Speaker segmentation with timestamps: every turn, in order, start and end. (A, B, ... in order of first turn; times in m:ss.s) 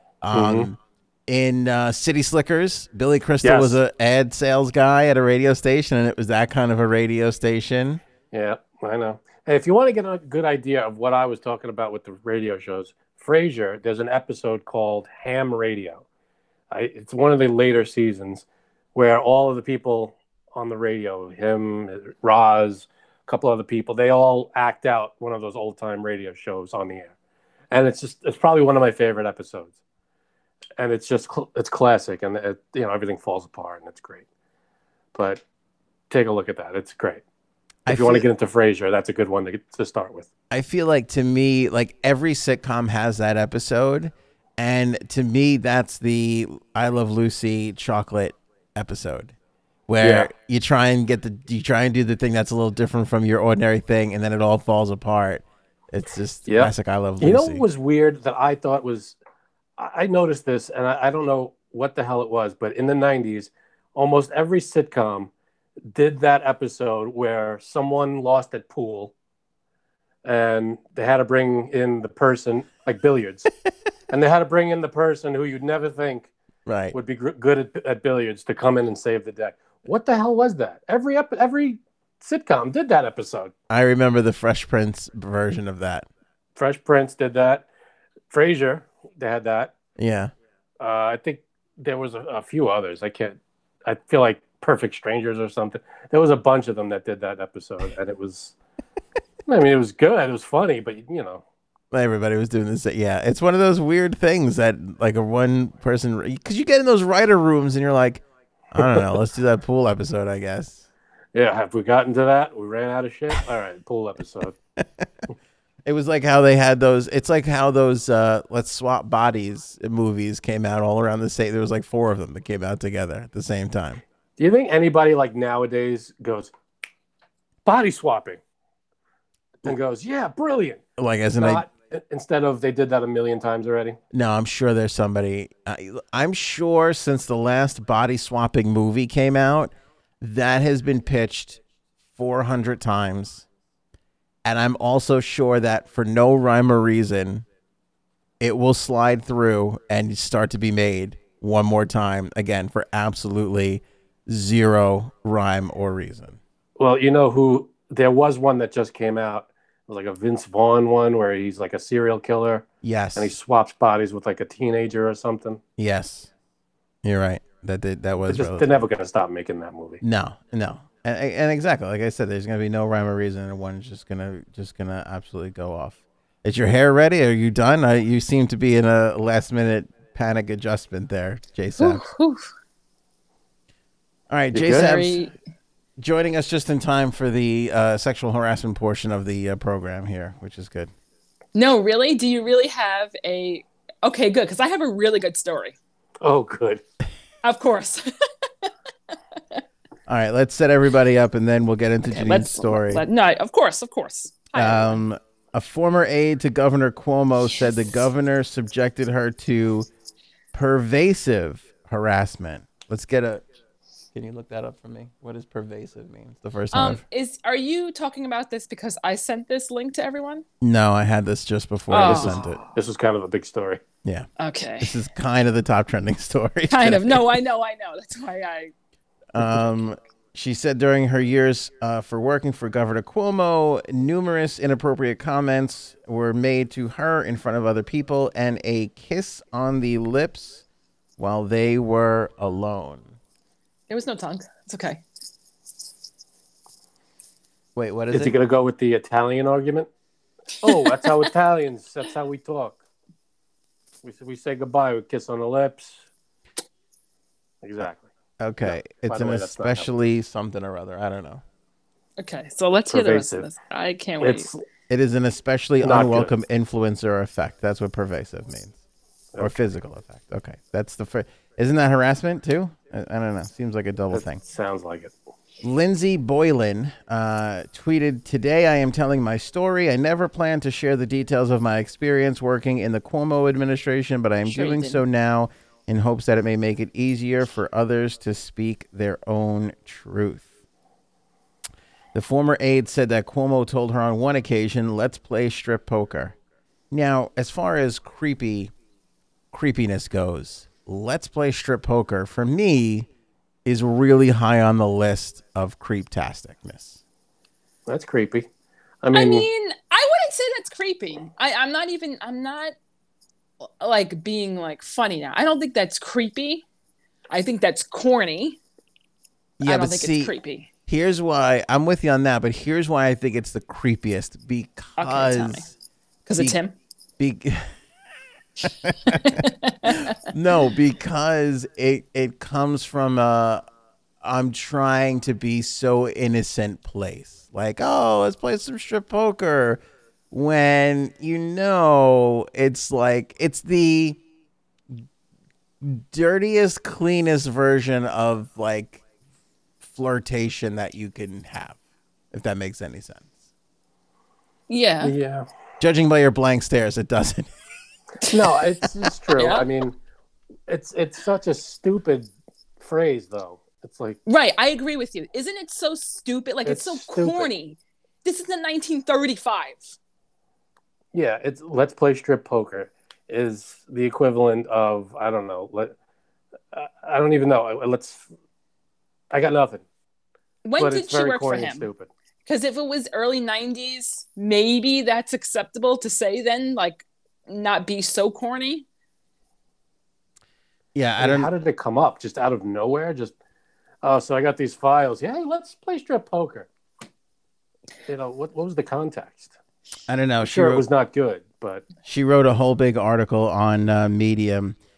0:00.2-0:08.0 A
0:00.3-0:00.7 B
0:03.4-0:03.8 B
0:08.3-0:16.0 B
0:16.7-0:27.1 B
0:27.7-0:29.8 B
0:30.8-0:34.2 B
0:35.1-0:35.4 B
0:36.1-0:37.2 B
0:37.9-0:38.2 A
0:37.9-0:40.3 B
0:40.5-0:49.3 A
0:49.9-0:57.6 A
0:50.0-0:50.3 B
0:56.5-0:59.2 B
0:59.8-1:05.3 B
1:05.9-1:09.1 B
1:10.2-1:13.5 B
1:14.1-1:16.3 B
1:16.6-1:16.9 A
1:16.9-1:23.5 B
1:23.7-1:26.1 A
1:26.6-1:27.7 B
1:28.3-1:29.7 B
1:30.0-1:30.3 A
1:30.8-1:38.6 B
1:39.5-1:41.4 B
1:41.9-1:50.8 A
1:51.4-1:54.6 B
1:54.8-1:55.1 A
1:55.8-2:04.0 A
2:04.4-2:06.5 B
2:07.6-2:08.4 B
2:09.6-2:10.8 B
2:11.0-2:11.6 A
2:11.4-2:14.0 B
2:14.1-2:21.6 A
2:22.1-2:23.4 A
2:24.4-2:27.4 A
2:28.4-2:36.4 A
2:36.8-2:45.6 B
2:42.8-2:43.3 A
2:45.8-2:46.3 A
2:47.0-2:48.7 A
2:48.3-2:50.0 B
2:50.0-3:02.1 A
3:01.8-3:02.4 C
3:04.3-3:05.2 A
3:04.5-3:04.9 B
3:04.7-3:05.3 C
3:06.0-3:10.9 A
3:11.6-3:15.8 C
3:16.2-3:16.8 B
3:17.4-3:18.1 C
3:20.1-3:23.0 A
3:22.1-3:25.0 C
3:24.6-3:29.9 A
3:30.5-3:33.4 A
3:34.1-3:37.0 A
3:36.7-3:40.4 C
3:40.6-3:42.6 A
3:41.9-3:42.6 C
3:42.0-3:43.8 B
3:44.4-3:44.9 C
3:44.8-3:47.4 A
3:46.7-3:48.7 C
3:49.3-4:00.6 A
4:01.2-4:03.1 A
4:03.9-4:05.0 C
4:07.8-4:08.3 A
4:08.1-4:09.9 B
4:10.6-4:12.8 B
4:14.0-4:16.0 B
4:17.6-4:18.1 B
4:18.4-4:21.4 A
4:18.6-4:19.9 B
4:22.2-4:24.5 C
4:22.9-4:23.5 B
4:24.2-4:24.6 B
4:24.9-4:28.8 A
4:25.8-4:26.4 B
4:29.4-4:34.4 A
4:34.1-4:35.1 B
4:35.6-4:50.5 A
4:44.4-4:45.0 C
4:52.1-4:56.4 A
4:56.9-4:58.7 A
4:59.5-5:03.1 A
5:03.6-5:07.0 A
5:07.9-5:08.5 B
5:09.0-5:09.5 B
5:09.1-5:12.7 C
5:13.8-5:16.6 C
5:17.3-5:18.6 C
5:19.6-5:20.3 A
5:19.6-5:20.7 C
5:20.9-5:25.7 A
5:25.0-5:25.6 C
5:26.2-5:26.7 C
5:27.2-5:27.7 A
5:28.6-5:33.6 A
5:29.2-5:30.1 C
5:34.2-5:44.2 A
5:45.8-5:49.0 A
5:49.8-5:51.8 A
5:52.3-5:53.3 A
5:54.7-5:55.1 C
5:55.0-5:55.4 B
5:55.8-5:57.5 A
5:58.2-6:00.0 B
5:59.4-5:59.7 C
6:00.7-6:04.2 B
6:04.2-6:10.0 C
6:06.6-6:07.5 B
6:11.1-6:15.9 B
6:16.7-6:18.3 B
6:19.3-6:19.8 B
6:20.6-6:21.9 C
6:20.8-6:22.1 B
6:22.4-6:28.9 C
6:30.9-6:31.5 A
6:31.2-6:33.4 B
6:34.0-6:36.7 B
6:38.1-6:39.6 B
6:40.1-6:40.8 A
6:40.4-6:41.8 B
6:42.0-6:44.8 A